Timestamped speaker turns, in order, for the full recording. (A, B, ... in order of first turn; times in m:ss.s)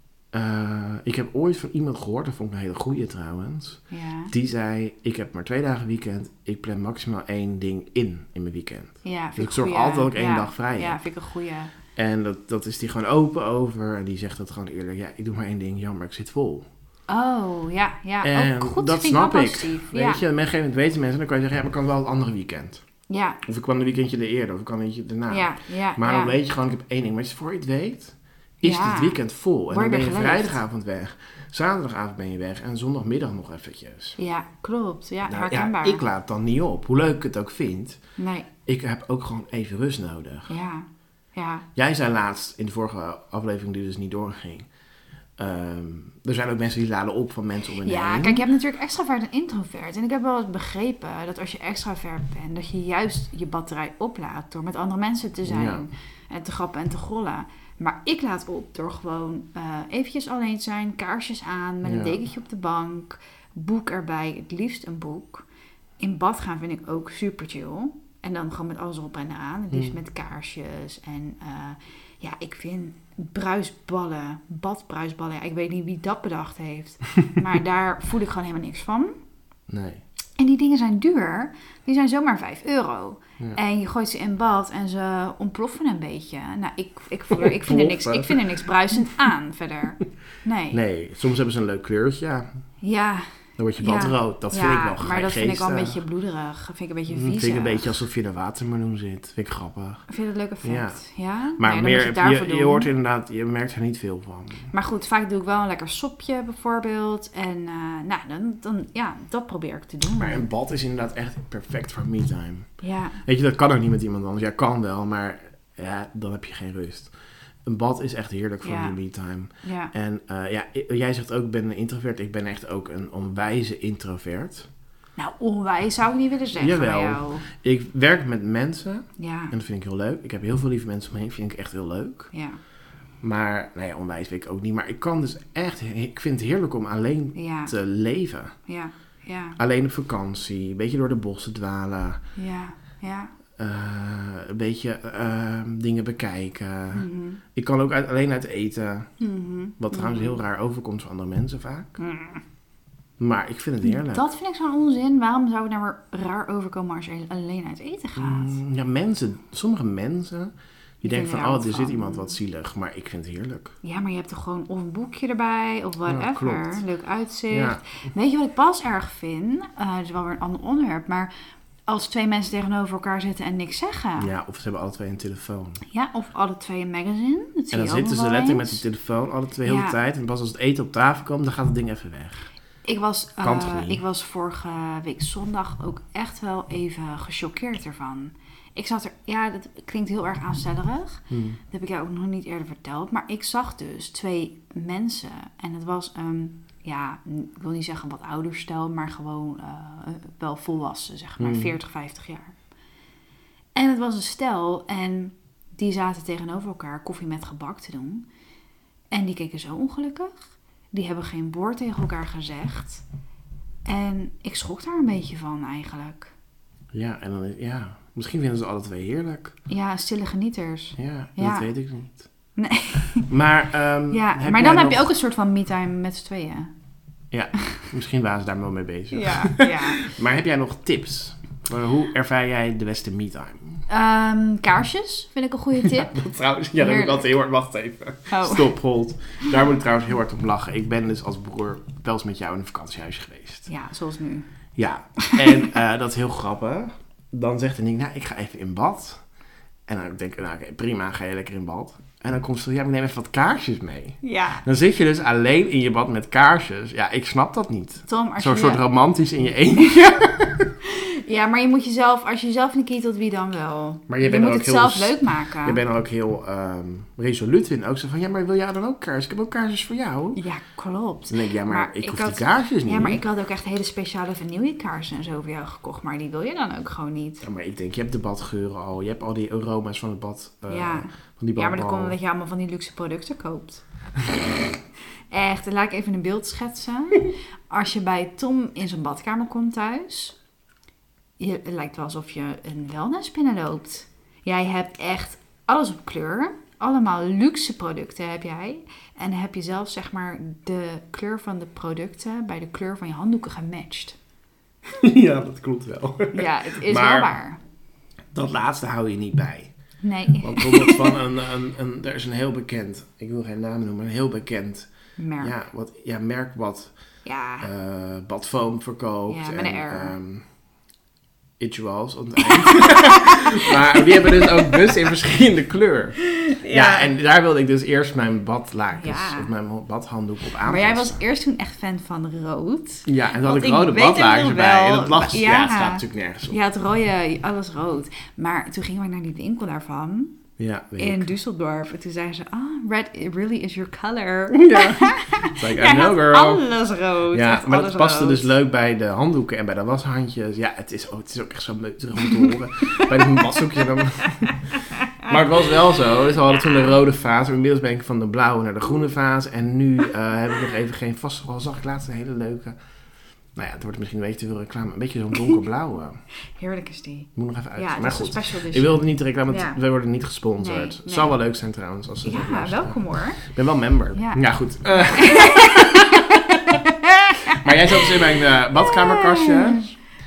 0:00.3-0:11.0 A
0:03.9-0:04.3 B
0:09.0-0:11.7 B
0:12.0-0:16.7 A
0:17.1-0:20.2 B
0:18.2-0:22.8 A
0:23.1-0:23.4 B
0:23.5-0:34.2 A
0:25.3-0:26.4 B
0:28.6-0:30.6 B
0:34.2-0:36.0 B
0:35.2-0:38.0 A
0:38.2-0:38.5 B
0:38.6-0:40.5 A
0:40.5-0:41.7 B
0:41.8-0:44.7 A
0:45.4-0:48.4 A
0:47.8-1:05.4 B
0:55.5-0:55.9 A
1:01.8-1:02.2 A
1:06.0-1:19.2 B
1:19.7-1:20.0 A
1:20.4-1:30.8 B
1:27.3-1:28.4 A
1:30.7-1:32.5 A
1:32.8-1:38.0 B
1:33.6-1:36.0 A
1:37.1-1:40.1 A
1:40.1-1:42.9 B
1:40.6-1:41.0 A
1:41.6-1:44.7 A
1:44.7-1:50.5 B
1:50.2-1:52.7 A
1:52.8-1:53.2 B
1:53.2-1:57.1 A
1:57.6-2:04.7 A
1:58.6-1:59.0 B
1:59.6-1:59.9 B
2:05.2-2:07.4 B
2:06.6-2:12.3 A
2:09.2-2:09.5 B
2:12.3-2:12.6 B
2:13.2-2:18.6 A
2:17.4-2:17.7 B
2:18.7-2:19.6 B
2:19.6-2:22.2 A
2:22.4-2:23.3 B
2:23.6-2:29.1 A
2:26.9-2:27.4 B
2:29.2-2:30.4 B
2:29.8-2:32.0 A
2:32.0-2:32.4 B
2:33.2-2:34.3 A
2:33.8-2:38.6 B
2:38.2-2:43.8 A
2:41.0-2:42.4 B
2:43.8-2:51.3 B
2:46.1-2:46.8 A
2:47.5-2:47.8 A
2:51.9-2:54.3 B
2:54.2-2:55.8 A
2:55.9-2:58.8 B
2:57.7-3:02.5 A
2:59.6-3:00.0 B
3:02.8-3:22.5 B
3:03.4-3:04.0 A
3:11.3-3:11.6 A
3:21.4-3:21.8 A
3:23.8-3:28.3 B
3:29.1-3:33.0 B
3:33.9-3:36.3 B
3:36.9-3:39.6 A
3:39.7-3:41.7 B
3:41.0-3:42.2 A
3:42.6-3:43.3 B
3:43.3-3:45.1 A
3:44.1-3:46.7 B
3:47.3-3:53.8 A
3:49.1-3:50.1 B
3:53.9-3:56.2 B
3:55.8-4:03.7 A
3:56.8-3:57.4 B
3:58.3-3:58.8 B
4:03.7-4:04.5 B
4:04.8-4:09.2 A
4:05.2-4:05.6 B
4:09.9-4:20.8 A
4:14.2-4:14.7 B
4:18.1-4:18.8 B
4:20.9-4:25.8 B
4:24.1-4:30.4 A
4:30.4-4:37.5 B
4:31.3-4:33.2 A
4:37.4-4:42.2 A
4:40.7-4:43.8 B
4:45.3-4:50.4 B
4:51.4-5:04.2 B
5:05.0-5:07.3 A
5:06.3-5:07.6 B
5:08.3-5:09.7 A
5:10.0-5:11.2 B
5:10.4-5:16.9 A
5:15.2-5:15.6 B
5:17.2-5:17.7 B
5:17.6-5:20.4 A
5:19.3-5:20.2 B
5:21.6-5:31.2 A
5:22.6-5:24.7 B
5:26.3-5:27.1 B
5:28.9-5:29.5 B
5:30.6-5:40.4 B
5:33.1-5:36.6 A
5:40.6-5:41.3 A
5:41.0-5:48.5 B
5:44.5-5:46.6 A
5:47.3-5:54.6 A
5:53.4-5:53.8 B
5:54.4-5:55.1 B
5:55.2-6:02.8 A
6:03.6-6:06.2 A
6:06.5-6:09.8 B
6:07.4-6:16.2 A
6:10.6-6:11.4 B
6:12.2-6:13.4 B
6:14.1-6:19.9 B
6:17.5-6:19.9 A